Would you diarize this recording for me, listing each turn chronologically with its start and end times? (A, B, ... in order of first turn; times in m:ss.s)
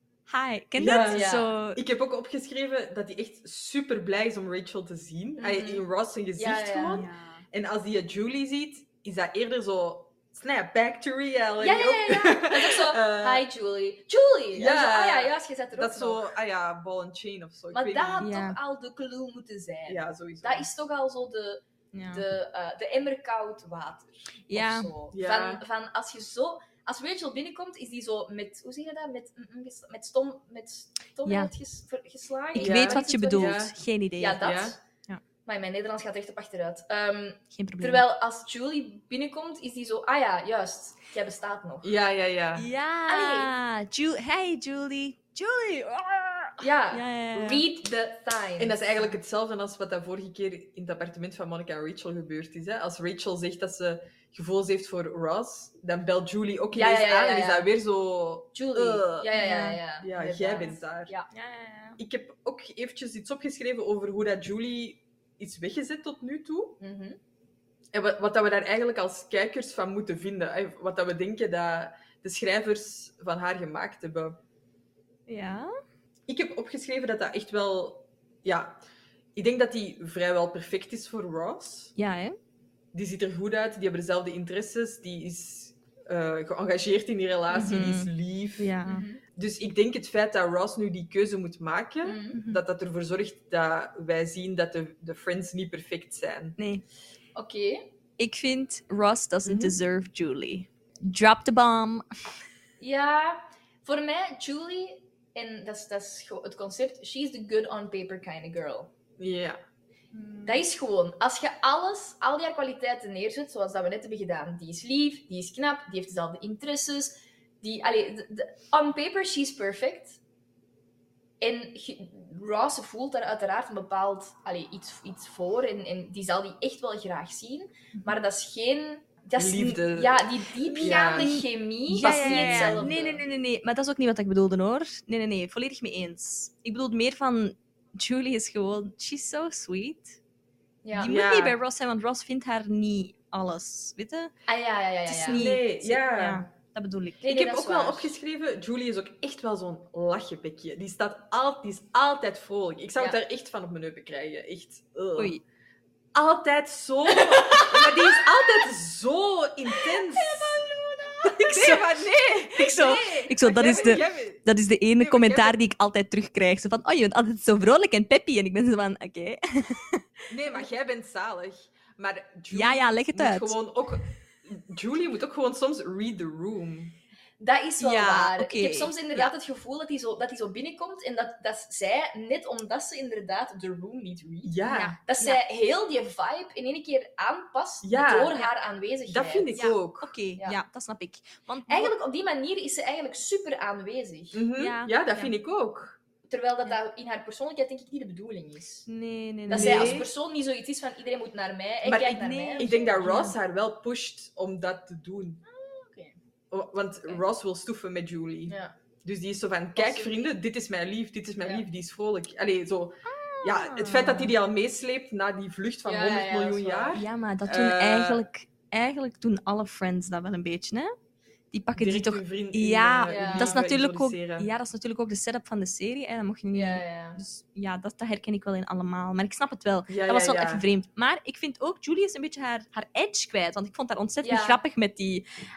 0:00.3-0:01.8 A
0:00.8-0:13.4 B
0:01.0-0:01.5 C
0:05.4-0:05.8 C
0:06.4-0:07.0 C
0:06.9-0:07.4 A
0:11.6-0:16.2 C
0:14.5-0:18.3 B
0:17.7-0:33.6 C
0:18.2-0:18.6 A
0:19.9-0:20.7 B
0:21.9-0:22.2 A
0:24.5-0:24.9 A
0:25.1-0:25.6 B
0:31.2-0:31.5 A
0:32.5-0:35.2 A
0:32.6-0:33.7 B
0:34.2-0:34.8 C
0:34.4-0:34.7 B
0:35.4-0:41.9 C
0:37.5-0:38.0 A
0:41.8-0:42.7 B
0:42.6-0:47.6 A
0:43.1-0:43.5 C
0:46.6-0:48.9 C
0:48.6-0:59.3 B
0:56.7-0:57.7 C
0:58.5-1:01.3 C
0:59.4-0:59.8 A
1:00.0-1:01.1 B
1:01.3-1:02.0 A
1:02.0-1:06.8 B
1:06.8-1:07.2 C
1:07.9-1:14.4 B
1:15.3-1:15.7 A
1:16.3-1:18.8 B
1:19.3-1:21.9 B
1:22.0-1:22.4 A
1:22.9-1:28.8 B
1:27.5-1:29.0 A
1:28.8-1:29.2 C
1:29.4-1:36.6 B
1:32.0-1:32.4 C
1:32.3-1:32.6 A
1:36.6-1:36.8 A
1:37.4-1:37.9 C
1:38.2-1:42.0 A
1:39.4-1:39.8 B
1:42.8-1:48.9 C
1:49.2-1:49.6 B
1:50.1-1:50.6 A
1:50.4-2:00.2 C
2:01.4-2:13.2 C
2:09.4-2:10.2 B
2:10.6-2:20.2 A
2:10.8-2:11.3 B
2:11.9-2:12.9 B
2:20.8-2:21.1 C
2:21.0-2:24.3 A
2:21.0-2:21.6 B
2:24.5-2:25.4 C
2:25.1-2:27.5 A
2:25.3-2:26.4 B
2:27.2-2:28.1 C
2:27.3-2:35.4 B
2:35.2-2:35.4 A
2:36.1-2:40.5 B
2:37.4-2:37.8 C
2:40.2-2:41.9 A
2:41.3-2:44.4 B
2:42.5-2:50.0 A
2:45.0-2:45.6 B
2:50.3-2:56.9 B
2:52.5-2:53.6 A
2:57.4-3:04.5 C
2:57.8-2:59.3 A
3:04.4-3:04.9 B
3:04.6-3:05.4 A
3:05.0-3:09.5 C
3:07.8-3:08.4 B
3:09.1-3:10.1 B
3:09.5-3:11.9 A
3:11.7-3:14.4 C
3:14.3-3:16.0 B
3:14.6-3:15.3 A
3:16.2-3:18.8 C
3:18.9-3:20.1 A
3:19.5-3:23.0 C
3:19.5-3:20.1 B
3:21.8-3:23.3 A
3:22.0-3:25.4 B
3:25.4-3:26.2 C
3:26.5-3:38.2 B
3:28.5-3:28.7 C
3:29.8-3:30.3 C
3:33.1-3:34.3 A
3:35.8-3:37.0 C
3:36.9-3:40.9 A
3:41.5-3:55.2 A
3:41.8-3:44.5 B
3:43.1-3:43.6 C
3:46.5-3:47.2 C
3:49.9-3:50.6 B
3:54.2-3:54.6 C